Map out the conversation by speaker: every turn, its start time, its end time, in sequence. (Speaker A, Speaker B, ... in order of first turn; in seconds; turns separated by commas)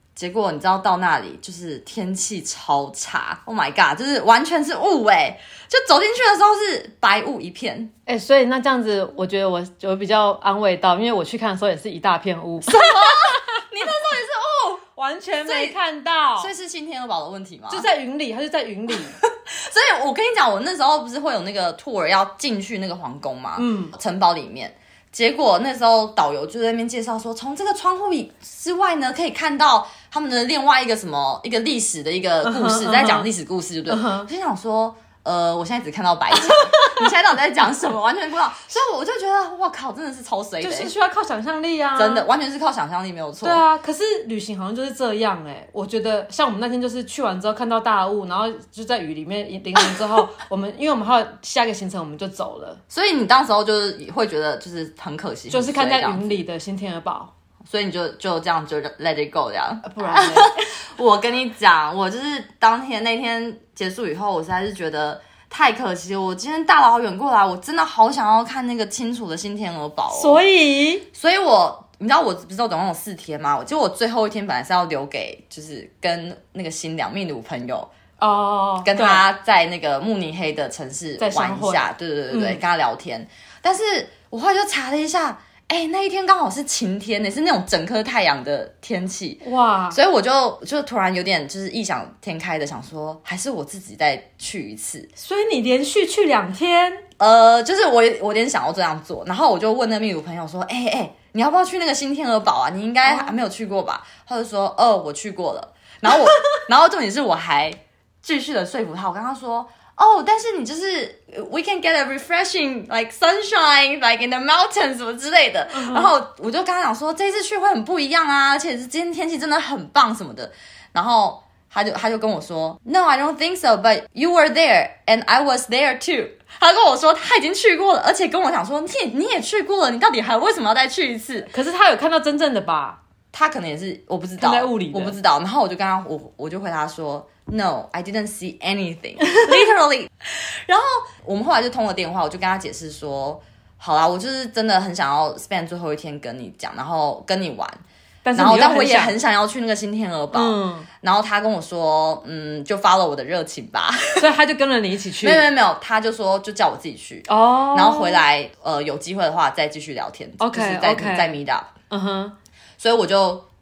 Speaker A: 0.1-7.9, Speaker B: 8.1-13.4, Speaker A: 12.7-14.8, Speaker B: 14.9-16.5, Speaker A: 15.4-15.8, Speaker A: 16.4-17.9, Speaker B: 17.7-19.2, Speaker A: 19.2-40.9, Speaker B: 23.6-23.9, Speaker B: 32.4-33.3, Speaker B: 33.9-34.3, Speaker B: 36.5-37.0, Speaker B: 40.6-42.3, Speaker A: 42.0-43.6, Speaker B: 43.4-52.8, Speaker A: 52.9-56.4, Speaker B: 55.5-57.3, Speaker A: 57.7-70.4, Speaker B: 59.8-60.6, Speaker B: 70.1-71.0, Speaker A: 71.1-77.9, Speaker B: 78.2-79.2, Speaker A: 78.8-95.1, Speaker B: 81.2-82.6, Speaker B: 89.4-90.0, Speaker B: 95.2-97.0, Speaker A: 97.2-131.5, Speaker B: 103.0-103.3, Speaker B: 115.7-116.1, Speaker B: 131.5-133.0, Speaker A: 133.3-147.8, Speaker B: 134.4-135.2, Speaker B: 148.2-149.2, Speaker A: 148.3-154.3, Speaker B: 150.3-150.9, Speaker B: 154.2-155.5, Speaker A: 155.2-161.7, Speaker B: 157.3-158.2, Speaker B: 160.4-161.4, Speaker B: 161.9-162.3, Speaker A: 162.8-163.4